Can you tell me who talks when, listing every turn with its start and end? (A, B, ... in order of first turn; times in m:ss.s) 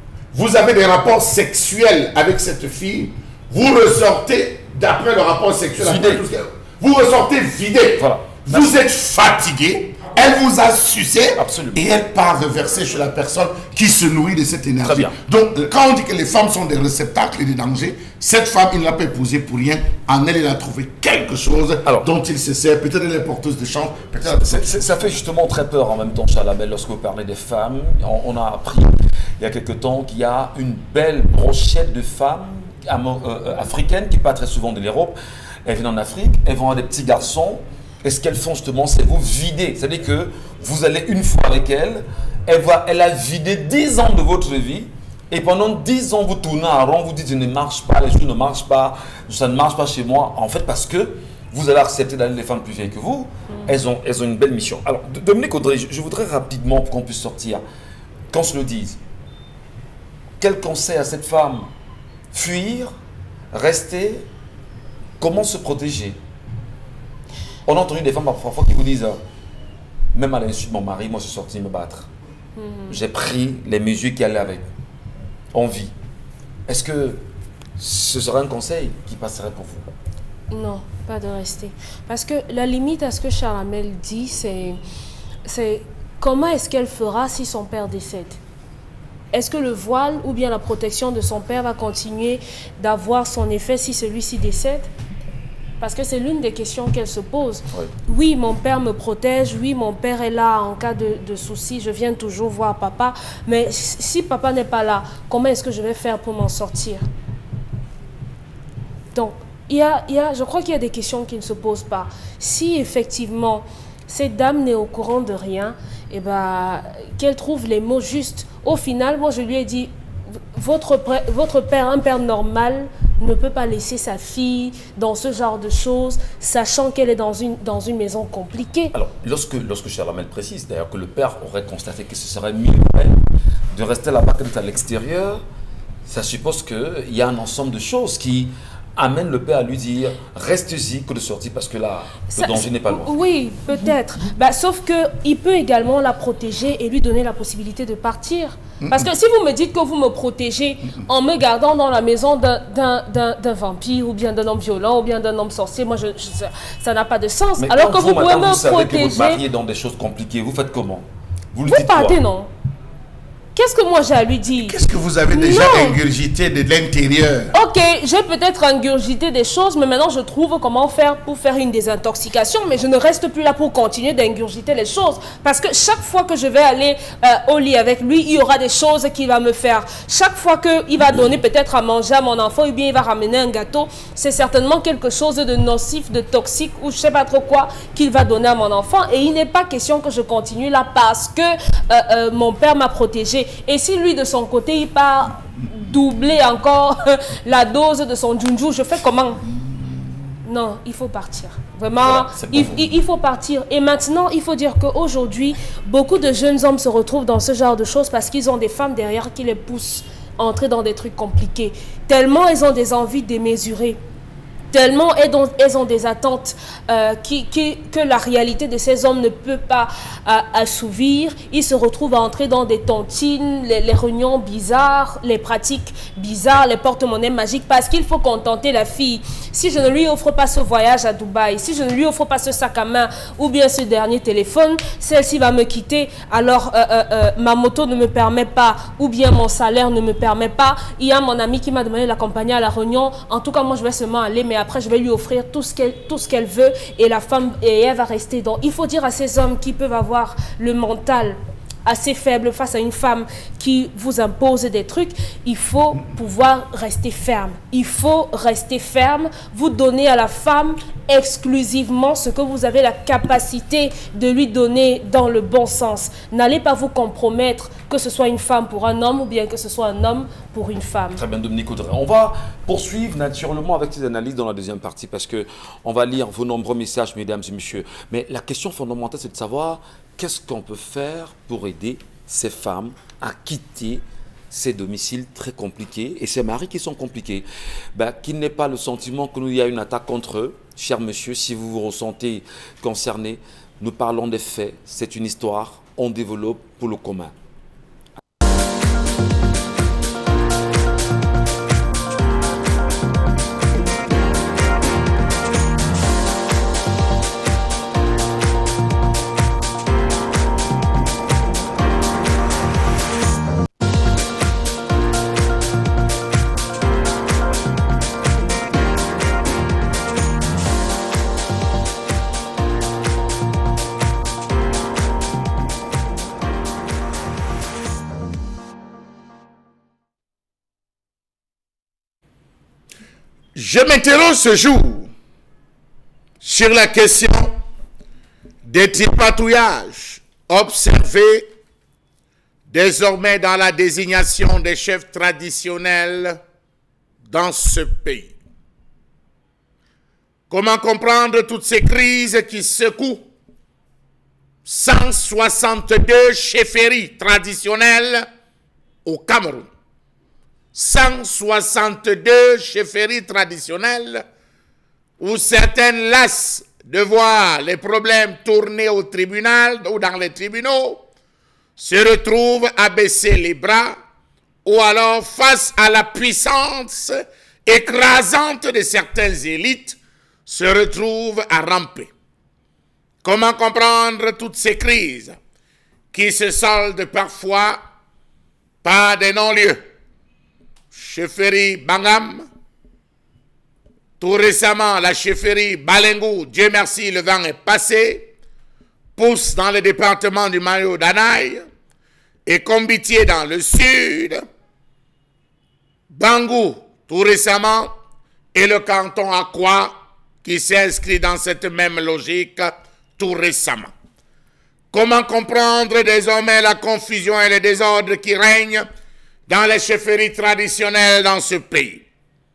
0:00.3-0:25.2 A
0:05.8-0:06.2 B
0:08.0-0:08.8 B
0:11.4-0:11.8 B
0:14.8-0:15.2 B
0:24.2-0:57.6 B
0:58.3-0:59.0 B
1:00.4-1:01.7 B
1:02.3-1:02.9 B
1:03.5-1:04.3 B
1:05.2-1:06.2 B
1:07.6-1:09.2 B
1:10.1-1:12.1 B
1:12.6-1:13.0 C
1:12.9-1:14.6 B
1:15.5-1:15.9 B
1:16.7-1:17.2 B
1:17.8-1:19.9 B
1:20.5-1:24.8 C
1:25.4-1:28.4 C
1:29.3-1:34.9 C
1:35.8-1:47.0 C
1:49.1-1:59.9 C
2:00.5-2:08.9 C
2:08.9-2:13.2 B
2:13.7-2:15.4 B
2:16.0-2:23.2 B
2:22.3-2:39.4 C
2:28.8-2:29.1 A
2:37.6-2:42.2 B
2:41.7-2:42.5 C
2:43.6-2:44.8 C
2:44.6-2:47.5 A
2:45.3-2:46.0 C
2:47.5-3:19.4 C
3:20.4-3:34.0 C
3:22.0-3:22.8 B
3:34.7-4:31.2 C
4:31.2-4:57.3 B
5:33.5-5:35.1 D
5:36.4-5:37.6 D
5:38.6-5:41.4 D
5:42.7-5:46.4 D
5:47.2-5:48.3 D
5:50.5-5:53.3 D
5:54.6-5:58.3 D
5:59.0-5:59.7 D
6:00.7-6:04.2 D
6:05.2-6:11.0 D
6:11.8-6:14.0 D
6:14.6-6:22.1 D
6:23.2-6:25.4 D
6:26.1-6:27.8 D
6:28.8-6:29.8 D
6:30.9-6:32.4 D
6:34.2-6:38.3 D
6:39.2-6:41.6 D
6:42.4-6:44.4 D
6:46.1-6:47.9 D
6:48.5-6:53.9 D
6:54.9-6:58.9 D
6:59.5-7:02.0 D